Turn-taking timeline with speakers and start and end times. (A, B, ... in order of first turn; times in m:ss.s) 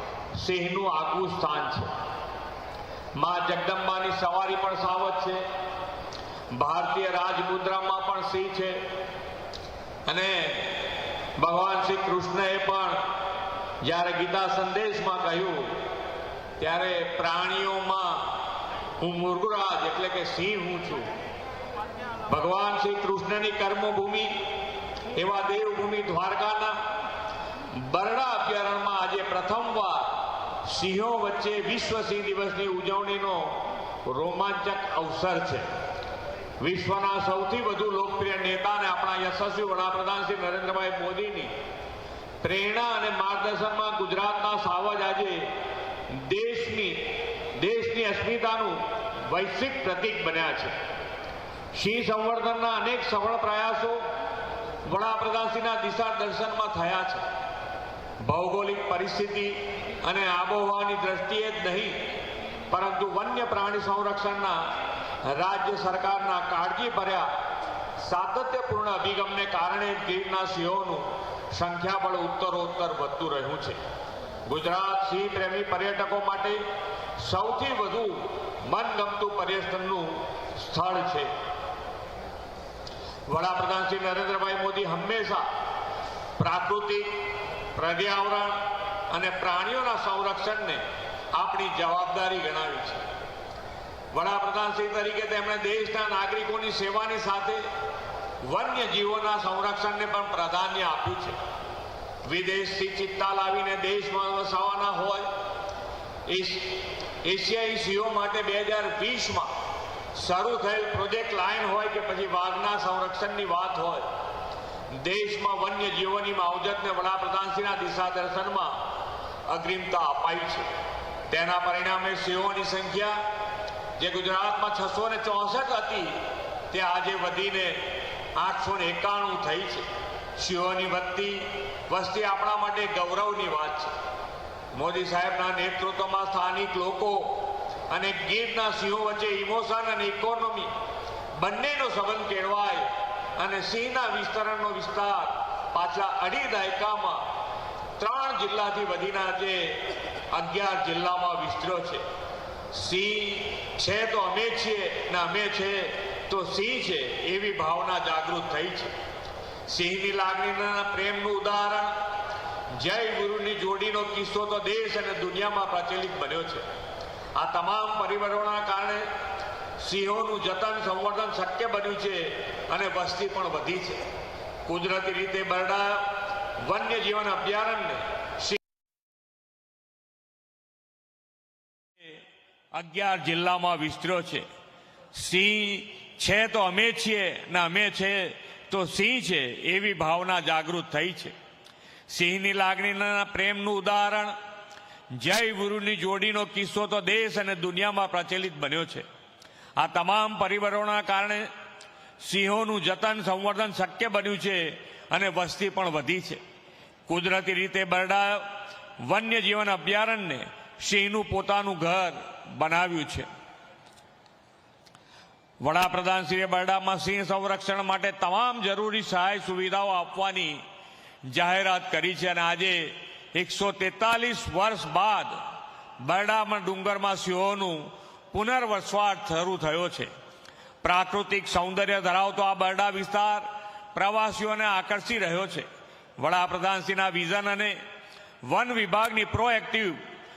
0:00.4-0:01.9 A
0:03.1-0:05.4 A
0:06.5-0:08.8 A
0:10.0-0:13.0 A
0:13.8-0:15.8 A
0:16.6-0:18.4 A
0:19.0-0:21.1 A
0:22.3-0:24.3 A
0:25.1-0:26.8 A
0:27.7-0:35.7 A
0:36.6-0:41.5 A
0:42.4-0:45.5 A
0:46.1-0:50.8 A
0:51.7-0:54.0 A
0:54.8-0:57.2 A
0:58.2-1:02.0 A
1:02.7-1:04.7 A
1:05.2-1:07.3 A
1:08.0-1:13.8 A
1:14.4-1:16.6 A
1:17.2-1:21.3 A
1:23.3-1:25.5 A
1:26.4-1:27.2 A
1:27.7-1:33.0 A
1:34.1-1:37.6 A
1:38.4-1:41.4 A
1:42.2-1:45.3 A
1:46.3-1:49.5 A
1:50.1-1:54.1 A
1:54.9-1:58.8 A
1:59.5-2:00.7 A
2:01.3-2:03.2 A
2:04.0-2:13.9 A
2:14.7-2:20.7 A
2:21.4-2:27.3 A
2:28.0-2:32.0 A
2:32.7-2:38.9 A
2:39.7-2:42.0 A
2:42.7-2:46.6 A
2:47.3-2:49.1 A
2:49.8-2:54.0 A
2:54.6-2:58.6 A
3:02.7-3:04.4 A
3:05.1-3:11.3 A
3:12.1-3:14.3 A
3:15.1-3:19.0 A
3:19.8-3:21.5 A
3:22.2-3:26.4 A
3:27.1-3:28.5 A
3:29.0-3:33.3 A
3:35.6-3:40.6 A
3:41.3-3:45.4 A
3:46.0-3:50.1 A
3:50.8-3:55.7 A
3:56.2-3:57.8 A
3:58.4-4:00.0 A